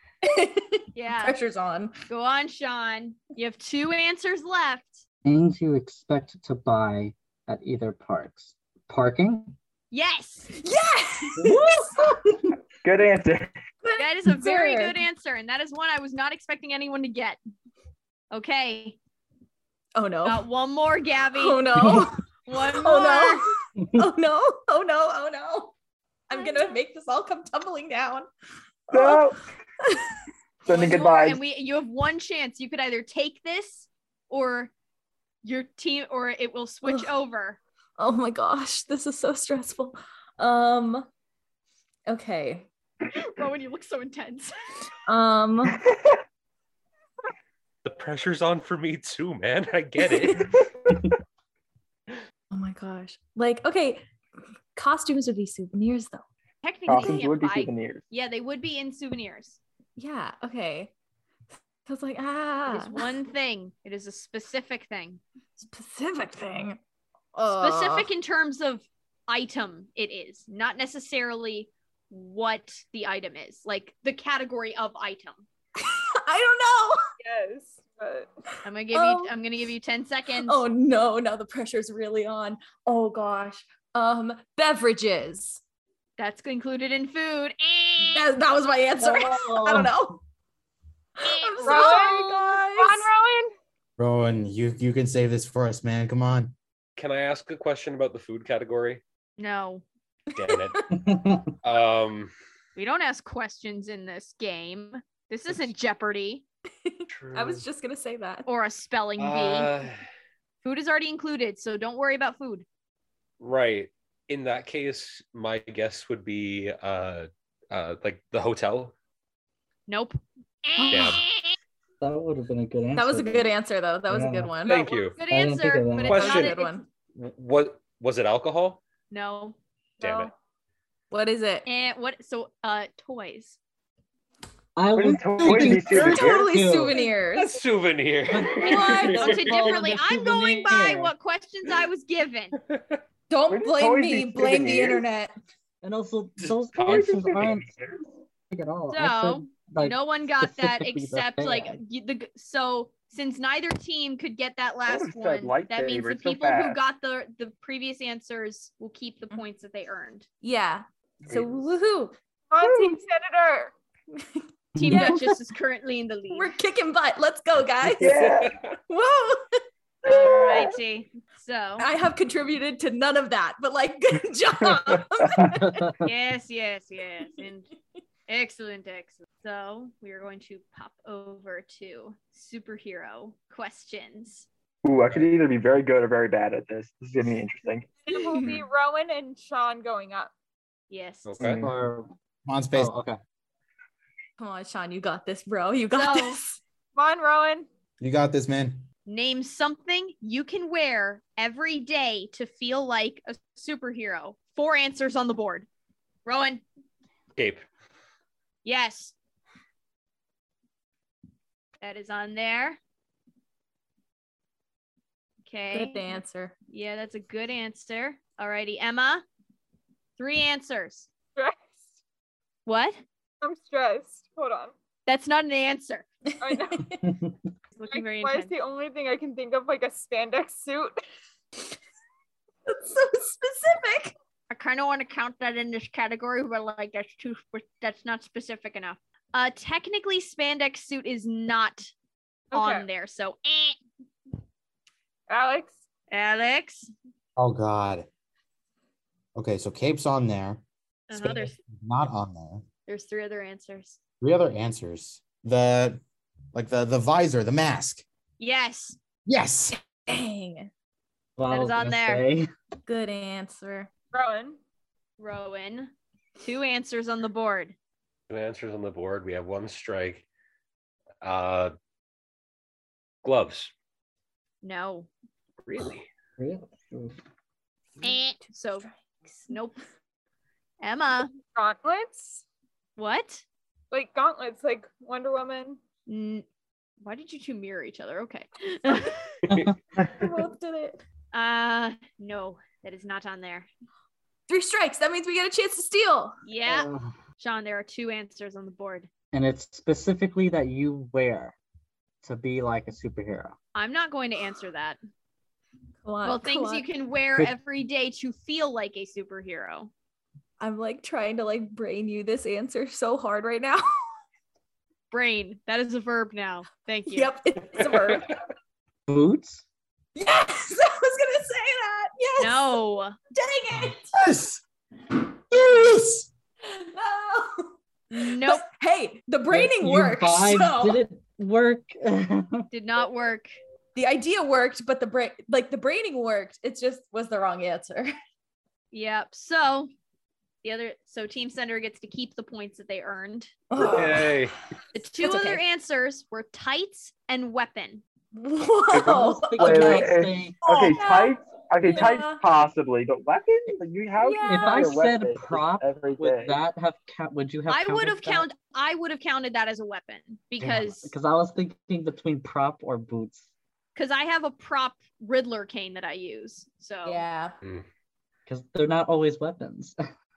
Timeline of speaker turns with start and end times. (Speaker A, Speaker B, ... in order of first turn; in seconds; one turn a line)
Speaker A: 0.2-1.9
Speaker B: 0.9-1.4
Speaker B: 2.1-5.0
Speaker C: 5.2-9.6
Speaker B: 9.9-10.5
Speaker A: 10.5-12.0
Speaker C: 11.4-12.5
Speaker D: 12.8-13.6
Speaker A: 13.8-15.0
Speaker B: 14.0-17.4
Speaker B: 18.3-19.0
Speaker A: 19.9-20.4
Speaker B: 20.2-21.9
Speaker A: 21.3-25.7
Speaker B: 22.5-23.5
Speaker C: 23.8-24.1
Speaker A: 26.3-28.3
Speaker B: 26.3-26.8
Speaker A: 28.9-29.3
Speaker D: 28.9-29.4
Speaker A: 29.8-30.1
Speaker D: 30.6-31.4
Speaker B: 30.7-34.7
Speaker B: 35.4-37.6
Speaker A: 36.8-37.1
Speaker A: 38.0-41.1
Speaker A: 42.1-42.7
Speaker B: 43.2-44.5
Speaker A: 45.1-45.8
Speaker D: 45.9-46.2
Speaker E: 47.9-50.6
Speaker A: 50.0-50.5
Speaker A: 52.5-54.1
Speaker A: 54.8-56.2
Speaker B: 56.6-59.6
Speaker D: 56.9-58.0
Speaker A: 60.0-60.9
Speaker A: 61.9-63.1
Speaker B: 62.7-65.2
Speaker A: 65.6-66.8
Speaker A: 67.3-68.1
Speaker B: 67.5-75.5
Speaker A: 75.8-77.0
Speaker F: 77.2-78.3
Speaker B: 78.6-80.6
Speaker A: 78.9-79.3
Speaker A: 80.4-85.6
Speaker B: 86.2-88.2
Speaker A: 88.0-90.2
Speaker C: 89.2-89.9
Speaker A: 91.2-93.1
Speaker B: 91.2-92.0
Speaker F: 91.7-93.5
Speaker G: 94.0-96.5
Speaker E: 97.0-99.0
Speaker B: 99.4-99.8
Speaker A: 100.3-100.9
Speaker E: 100.4-100.8
Speaker C: 100.9-101.5
Speaker E: 101.6-102.3
Speaker B: 102.8-106.4
Speaker A: 106.8-108.5
Speaker E: 107.1-107.7
Speaker B: 108.5-109.7
Speaker E: 109.2-110.0
Speaker B: 110.6-112.7
Speaker E: 113.4-118.9
Speaker B: 119.9-121.5
Speaker A: 120.8-121.2
Speaker E: 120.9-121.2
Speaker C: 122.0-123.6
Speaker A: 123.0-124.8
Speaker C: 124.1-124.5
Speaker E: 124.7-125.2
Speaker B: 124.7-126.8
Speaker C: 125.3-126.2
Speaker E: 126.1-126.6
Speaker A: 126.1-126.8
Speaker E: 127.1-128.8
Speaker B: 129.1-130.3
Speaker E: 130.0-130.3
Speaker A: 131.1-131.7
Speaker B: 131.7-133.6
Speaker C: 134.8-137.1
Speaker D: 134.9-136.6
Speaker A: 135.9-137.6
Speaker E: 137.3-139.8
Speaker C: 138.3-141.1
Speaker A: 138.6-139.5
Speaker B: 138.7-142.6
Speaker A: 143.3-145.3
Speaker D: 143.5-145.0
Speaker C: 145.8-147.7
Speaker D: 146.4-148.0
Speaker C: 148.5-151.8
Speaker B: 148.9-160.3
Speaker D: 154.9-156.8
Speaker A: 160.4-162.2
Speaker D: 161.3-161.7
Speaker F: 162.5-163.7
Speaker D: 162.6-162.9
Speaker A: 164.2-165.2
Speaker C: 164.8-165.3
Speaker B: 164.8-166.5
Speaker A: 166.3-168.3
Speaker D: 168.0-168.6
Speaker E: 168.0-168.8
Speaker A: 168.9-169.6
Speaker D: 170.1-170.7
Speaker B: 170.1-171.9
Speaker A: 171.8-175.9
Speaker C: 175.4-176.0
Speaker B: 176.0-177.7
Speaker B: 178.3-184.5
Speaker D: 184.8-187.9
Speaker F: 188.1-190.3
Speaker A: 188.3-188.6
Speaker B: 190.9-191.4
Speaker E: 191.3-191.6
Speaker D: 191.4-191.7
Speaker C: 191.6-192.1
Speaker G: 192.5-192.9
Speaker C: 192.7-193.2
Speaker A: 194.4-196.6
Speaker B: 195.9-196.4
Speaker F: 196.9-197.7
Speaker G: 198.0-198.8
Speaker B: 199.1-205.7
Speaker B: 206.3-206.6
Speaker E: 207.4-207.6
Speaker B: 208.7-209.1
Speaker B: 211.8-212.8
Speaker B: 215.5-219.2
Speaker A: 215.7-216.5
Speaker B: 220.2-221.1
Speaker F: 221.4-222.0
Speaker B: 222.7-223.0
Speaker F: 223.4-224.7
Speaker B: 225.1-226.1
Speaker A: 226.3-227.1
Speaker F: 226.4-226.8
Speaker C: 227.0-227.3
Speaker B: 227.8-228.5
Speaker F: 227.9-230.9
Speaker A: 232.7-234.2
Speaker B: 234.5-241.9
Speaker F: 242.5-242.9
Speaker B: 242.5-243.8
Speaker F: 245.3-245.8
Speaker B: 246.1-246.9
Speaker G: 247.4-248.1
Speaker G: 249.3-252.6
Speaker B: 251.1-251.6
Speaker B: 252.9-254.0
Speaker G: 254.2-256.0
Speaker G: 256.5-258.0
Speaker B: 258.4-259.0
Speaker G: 259.3-259.8
Speaker A: 260.1-260.7
Speaker C: 261.4-262.5
Speaker B: 261.5-262.2
Speaker A: 262.9-263.9
Speaker F: 264.1-264.6
Speaker B: 265.2-267.8
Speaker E: 268.3-270.2
Speaker E: 271.2-271.7
Speaker E: 273.2-273.7
Speaker B: 274.6-275.1
Speaker E: 275.7-276.1
Speaker C: 276.4-277.2
Speaker A: 278.0-279.5
Speaker B: 278.0-278.9
Speaker B: 279.5-279.8
Speaker B: 280.8-281.3
Speaker F: 281.5-282.4
Speaker B: 283.0-283.4
Speaker F: 283.9-285.8
Speaker B: 286.1-286.4
Speaker B: 287.0-289.2
Speaker C: 289.5-289.8
Speaker A: 290.1-291.0
Speaker B: 291.3-293.7
Speaker A: 294.5-296.4
Speaker B: 296.5-299.1
Speaker C: 296.7-297.2
Speaker C: 299.3-301.6
Speaker C: 302.2-303.6
Speaker B: 303.8-305.0
Speaker A: 306.0-306.9
Speaker B: 306.2-309.9
Speaker A: 310.6-313.9
Speaker B: 315.1-317.3
Speaker A: 317.1-318.4
Speaker C: 319.1-319.6
Speaker A: 320.1-322.8
Speaker B: 322.4-323.2
Speaker A: 323.3-324.1
Speaker G: 324.1-324.6
Speaker G: 325.5-326.3
Speaker A: 326.6-327.7
Speaker B: 328.1-328.7
Speaker A: 328.3-331.0
Speaker C: 329.5-332.7
Speaker B: 332.7-333.6
Speaker A: 333.9-338.1
Speaker B: 338.9-339.9
Speaker B: 340.6-343.5
Speaker A: 343.7-344.4
Speaker E: 343.8-344.6
Speaker B: 344.9-348.0
Speaker A: 345.0-345.6
Speaker A: 348.3-352.4
Speaker D: 348.9-356.6
Speaker C: 349.1-350.9
Speaker A: 354.2-354.9
Speaker C: 354.5-358.5
Speaker B: 357.7-361.1
Speaker C: 360.6-363.5
Speaker B: 364.0-367.2
Speaker A: 367.0-367.6
Speaker C: 368.5-370.0